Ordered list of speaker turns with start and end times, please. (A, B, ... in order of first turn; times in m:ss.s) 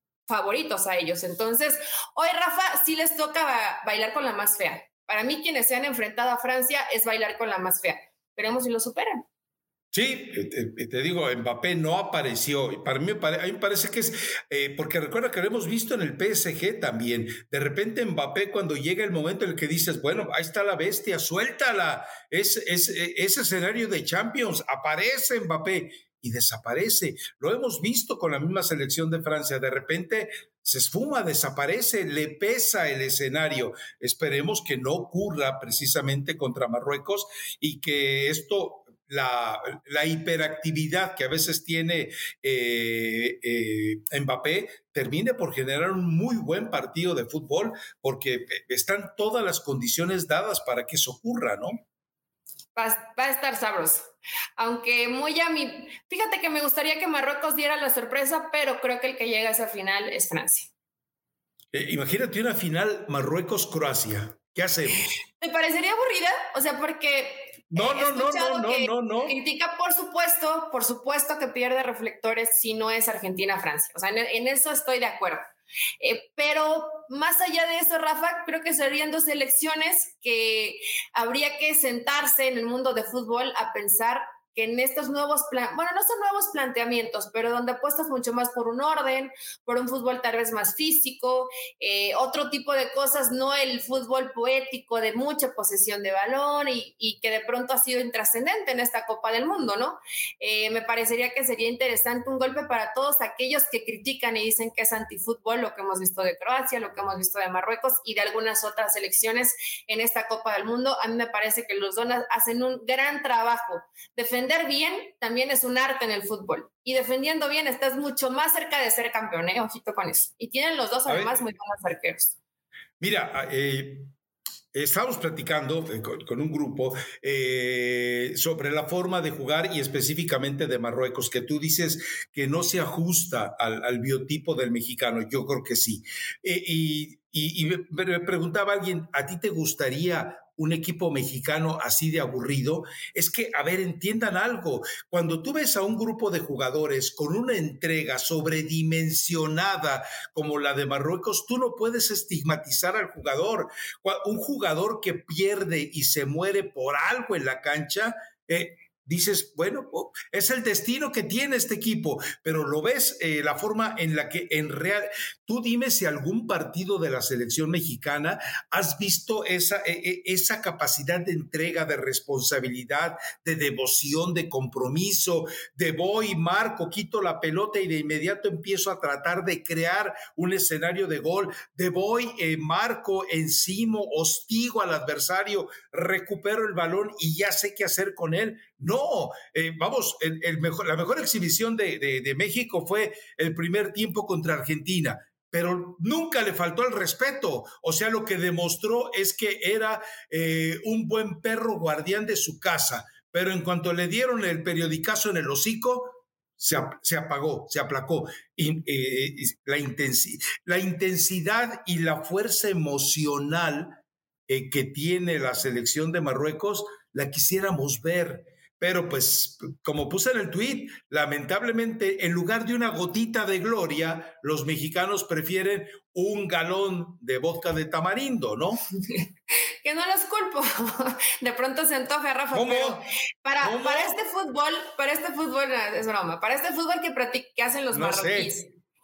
0:00.3-0:09.3 A
0:09.9-0:51.8 B
0:52.8-1:00.7 A
1:01.7-1:05.1 B
1:05.4-1:15.4 A
1:07.7-1:09.4 B
1:16.0-2:02.4 A
2:01.1-2:01.4 B
2:03.0-2:04.1 B
2:04.7-3:48.8 B
3:49.8-3:58.7 A
3:52.5-3:53.0 B
3:53.6-3:54.2 B
3:57.9-3:58.5 B